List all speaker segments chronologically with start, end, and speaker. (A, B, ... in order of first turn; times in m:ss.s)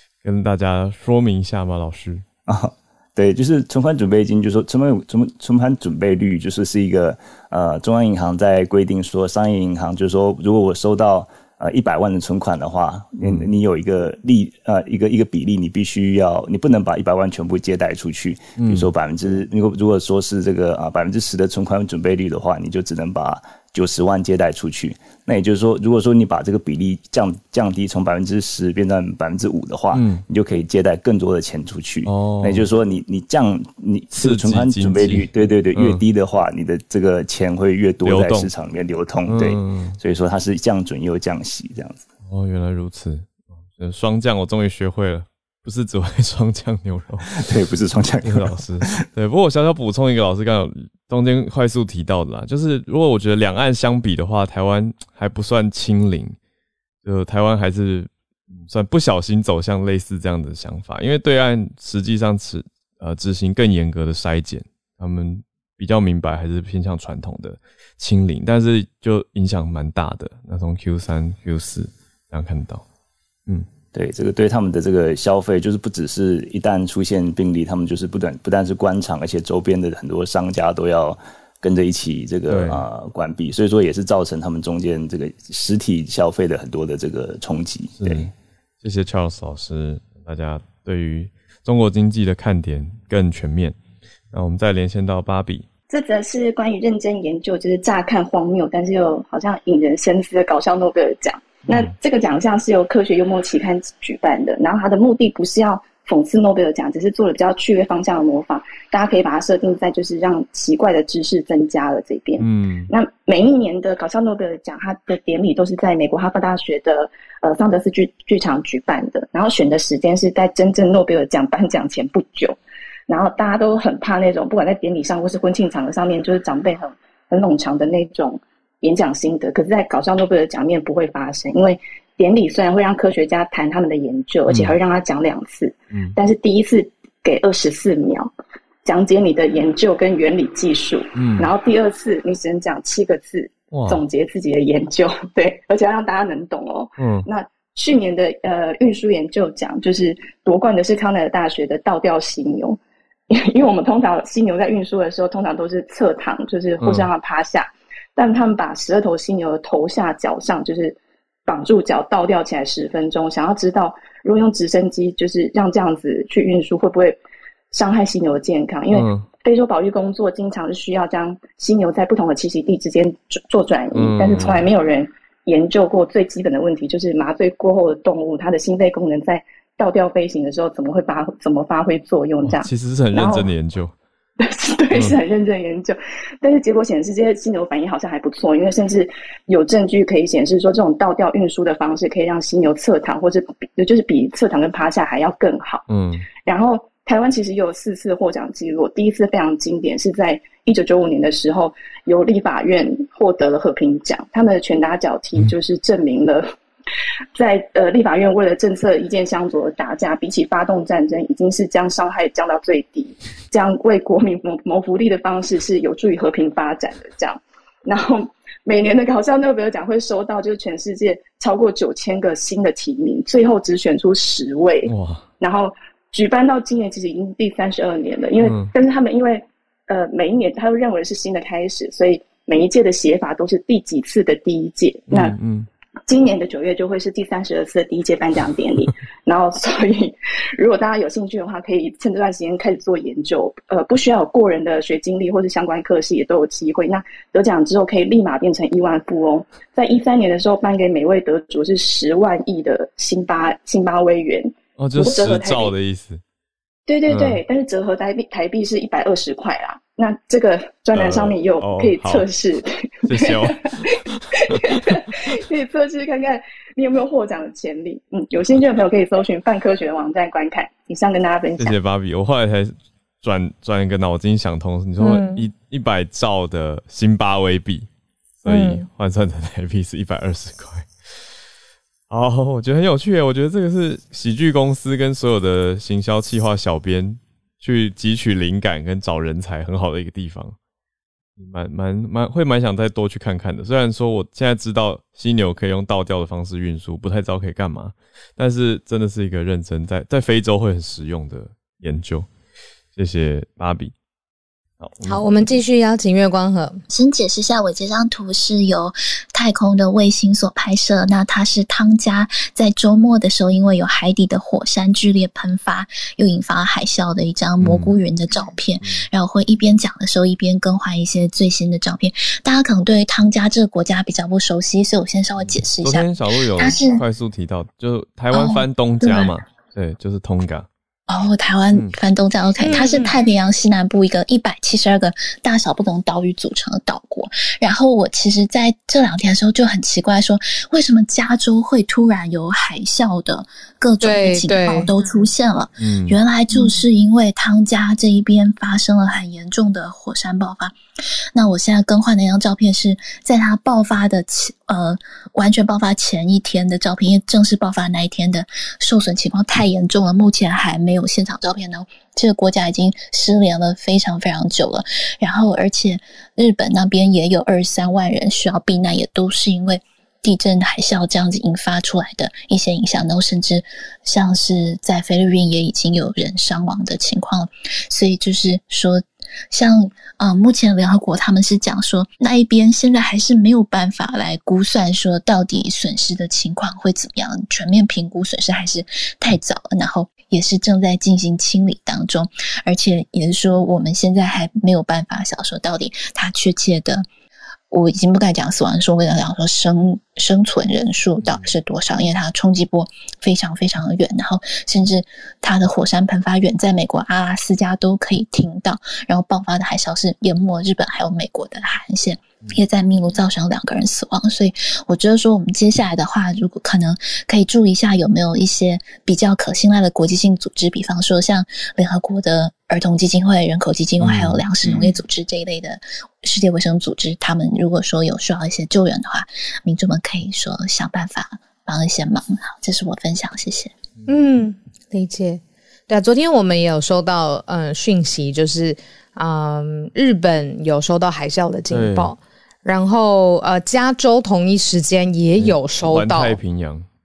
0:00.2-0:02.2 A
0:02.5-0:42.1 B
0:13.2-0:13.5 A
0:18.6-0:18.9 A
0:29.9-0:30.2 A
0:32.0-0:32.7 A
0:34.1-0:36.0 A
0:38.0-0:38.5 A
0:39.3-0:40.0 A
0:42.3-0:47.3 A
0:47.3-0:49.0 B
0:48.2-0:56.4 A
0:57.0-1:12.8 A
1:13.9-1:28.3 B
1:22.5-1:22.8 A
1:28.0-1:28.3 A
1:28.8-1:33.8 A
1:34.3-1:35.7 A
1:35.9-2:02.6 C
1:41.7-1:41.9 A
1:52.4-1:52.9 A
2:03.1-2:18.3 C
2:14.5-2:14.8 A
2:18.8-2:32.8 C
2:21.2-2:21.5 A
2:23.7-2:24.0 A
2:27.0-2:27.3 A
2:33.3-2:47.2 C
2:36.8-2:37.1 A
2:47.7-3:03.5 C
2:48.9-2:49.3 A
2:54.0-2:54.7 A
3:02.4-3:03.9 A
3:04.4-3:15.9 C
3:15.9-3:16.3 A
3:16.4-3:26.5 C
3:27.4-3:55.4 C
3:44.9-3:45.2 A
3:48.4-3:48.7 A
3:55.1-3:55.7 A
3:56.1-4:15.7 C
4:14.8-4:16.2 A
4:16.9-4:31.7 C
4:17.1-4:17.4 A
4:20.9-4:22.3 A
4:23.0-4:25.1 A
4:31.6-4:37.9 A
4:35.0-4:35.4 D
4:38.4-4:40.9 A
4:38.5-4:38.8 D
4:42.1-4:50.6 A
4:51.4-5:02.3 A
5:03.0-5:03.9 A
5:04.8-5:05.2 A
5:05.0-5:06.8 D
5:06.9-5:27.0 E
5:17.6-5:17.9 A
5:25.4-5:30.7 A
5:28.3-5:29.4 E
5:31.1-5:50.8 E
5:32.6-5:33.2 D
5:44.0-5:44.9 D
5:45.8-5:46.2 A
5:51.3-6:37.1 E
6:37.7-7:13.7 E
6:41.2-6:41.5 A
7:04.0-7:04.4 A
7:14.1-7:26.4 D
7:21.7-7:22.1 A
7:25.4-7:26.9 A